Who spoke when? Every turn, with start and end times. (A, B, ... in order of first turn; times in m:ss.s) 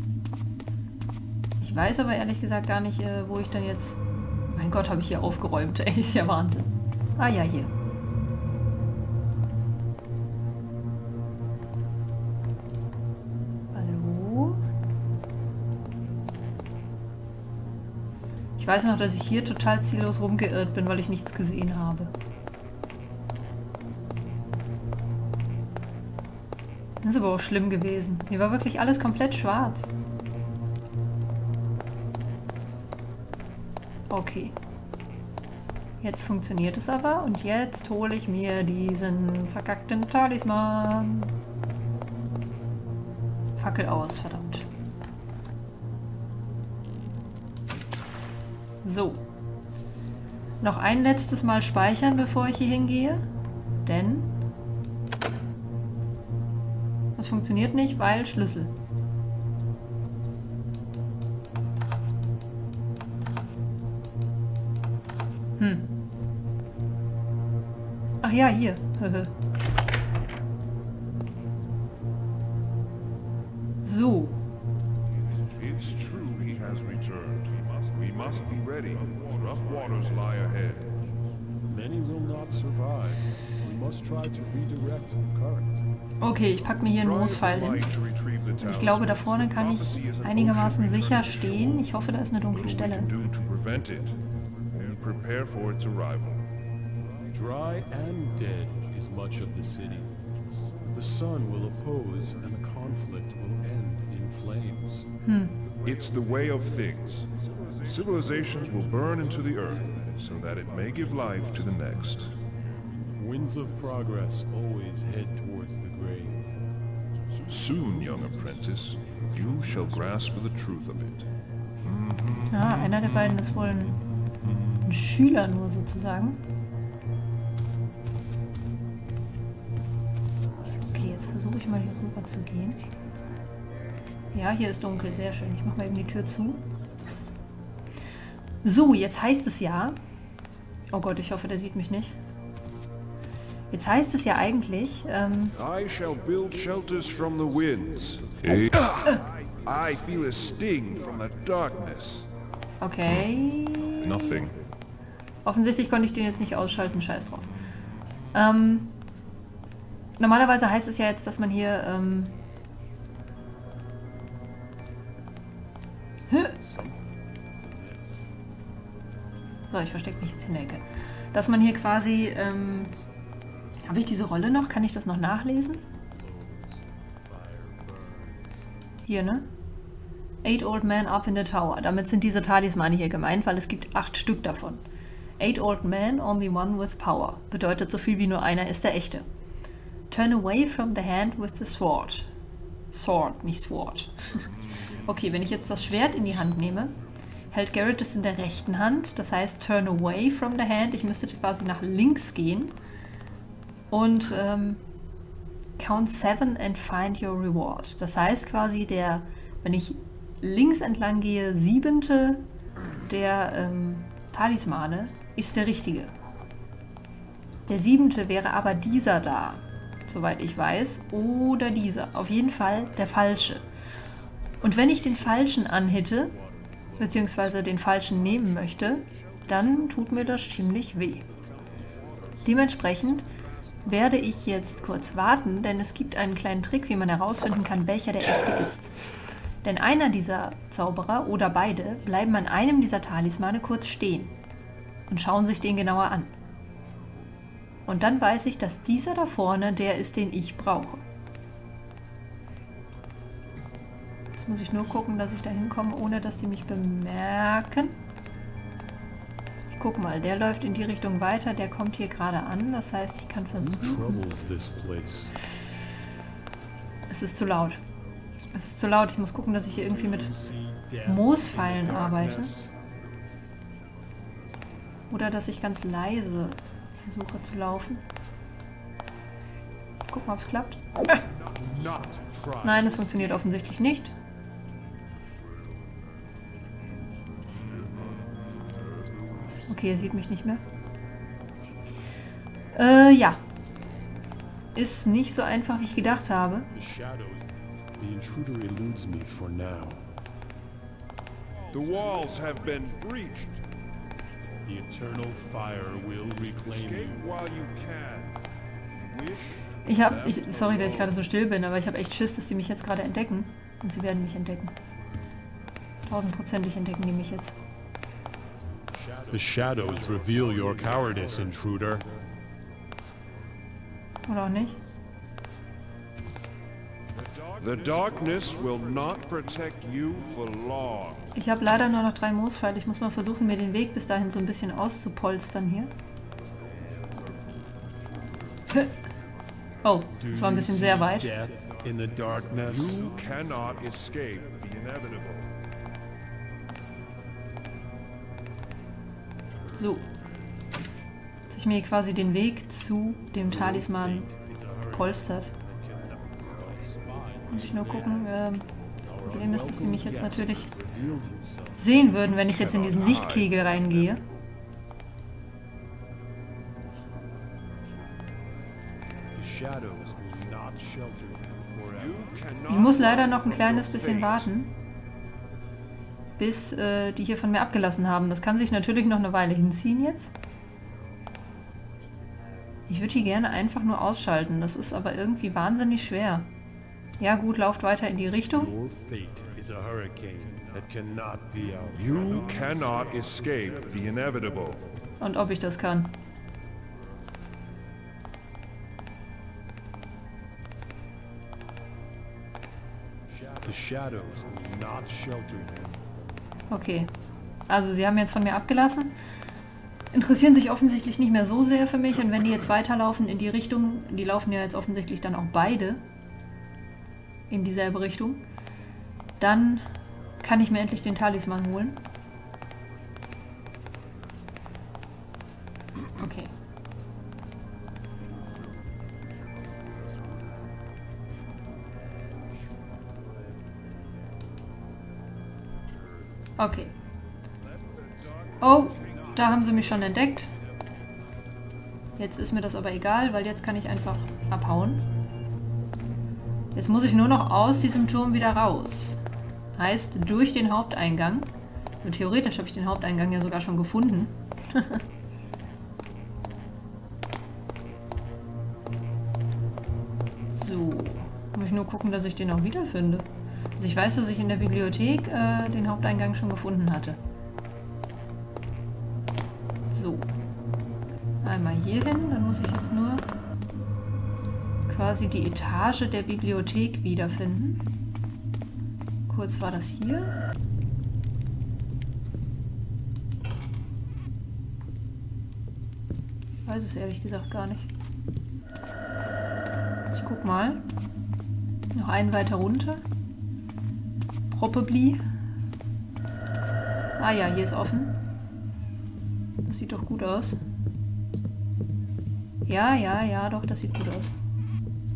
0:01.6-0:07.7 A
0:13.7-0:14.6 A
0:18.6-0:22.1 A
0:27.0-0:29.9 A
0:34.1-0:34.6 A
0:36.0-0:41.3 A
0:43.6-0:44.7 A
0:48.8-0:49.2 A
0:50.6-0:53.2 A
0:53.8-0:54.3 A
0:57.2-0:58.7 A
1:05.6-1:05.9 A
1:08.2-1:09.3 A
1:13.8-1:14.4 A
1:15.4-1:20.9 B
1:21.7-1:25.8 C
1:26.2-1:27.9 A
1:27.0-1:31.8 B
1:28.6-1:33.1 A
1:32.5-1:34.2 B
1:34.7-1:36.4 B
1:37.3-1:40.2 C
1:40.9-1:45.0 C
1:45.2-1:45.6 A
1:45.8-1:47.3 B
1:47.8-1:52.3 B
1:53.1-1:56.5 C
1:57.5-2:01.3 B
2:01.8-2:03.0 B
2:02.5-2:04.0 A
2:04.8-2:06.4 A
2:10.9-2:12.8 A
2:14.3-2:16.6 A
2:18.6-2:20.0 A
2:20.9-2:22.2 A
2:23.7-2:25.5 A
2:25.6-2:32.3 B
2:32.8-2:34.4 A
2:34.0-2:34.5 B
2:35.4-2:37.5 A
2:38.3-2:38.9 A
2:40.2-2:42.3 A
2:46.4-2:48.2 C
2:49.7-2:52.9 A
2:53.8-2:55.8 A
2:55.9-2:58.7 C
2:59.1-2:59.5 A
3:00.4-3:04.8 A
3:05.4-3:09.2 A
3:10.1-3:12.3 A
3:12.9-3:14.5 A
3:15.0-3:17.0 A
3:17.5-3:22.7 A
3:23.9-3:24.8 A
3:25.8-3:32.4 A
3:33.0-3:36.1 A
3:37.7-3:43.6 A
3:44.6-3:46.3 A
3:45.0-3:47.3 C
3:47.0-3:51.2 A
3:52.4-3:53.2 A
3:53.8-3:58.9 A
3:59.6-4:04.3 A
4:05.1-4:06.3 A
4:07.9-4:11.0 A
4:14.4-4:17.9 A
4:19.7-4:24.2 A
4:23.6-4:25.4 C
4:27.1-4:27.8 A
4:28.5-4:30.3 A
4:29.9-4:32.7 C
4:31.0-4:32.5 A
4:35.1-4:38.0 A
4:40.1-4:41.2 A
4:41.4-4:43.4 C
4:42.6-4:44.1 A
4:49.7-4:50.6 A
4:52.7-4:53.4 A
4:54.7-4:56.7 A
4:56.7-5:00.0 C
5:01.7-5:03.6 B
5:04.6-5:07.2 C
5:06.7-5:08.4 B
5:09.1-5:11.2 B
5:09.8-5:14.7 A
5:16.1-5:17.6 A
5:18.9-5:22.0 C
5:24.2-5:24.8 A
5:27.4-5:31.3 B
5:31.3-5:35.9 A
5:39.8-5:41.3 A
5:40.1-5:43.1 C
5:42.6-5:45.5 B
5:49.7-5:50.1 A
5:51.5-5:54.3 A
5:53.4-5:58.3 C
5:54.9-5:55.5 A
5:57.5-5:58.7 A
5:59.0-6:02.0 C
5:59.2-6:00.7 A
6:01.8-6:04.2 A
6:02.5-6:04.3 B
6:09.3-6:12.4 C
6:12.0-6:14.5 B
6:12.7-6:14.7 A
6:16.4-6:20.3 A
6:22.9-6:26.5 A
6:27.2-6:28.7 A
6:28.5-6:32.6 C
6:31.9-6:34.9 B
6:35.2-6:36.2 A
6:43.3-6:46.0 C
6:46.7-6:47.1 A
6:47.7-6:49.1 A
6:50.1-6:56.0 A
6:57.5-6:58.4 A
6:59.4-6:59.8 A
7:00.4-7:02.0 A
7:06.2-7:06.5 A
7:16.6-7:16.9 A
7:18.4-7:19.2 B
7:18.6-7:20.5 A
7:22.2-7:25.0 A
7:26.7-7:29.2 A
7:29.7-7:31.5 A
7:32.0-7:35.0 A
7:40.5-7:47.2 A
7:49.9-7:50.3 A
7:51.4-7:53.3 A
7:54.9-7:57.8 A
7:59.3-8:00.4 A
8:06.6-8:07.9 A
8:10.1-8:10.8 A
8:11.9-8:13.0 A
8:14.5-8:15.2 A
8:17.2-8:18.2 A
8:19.6-8:20.6 A
8:22.7-8:24.4 A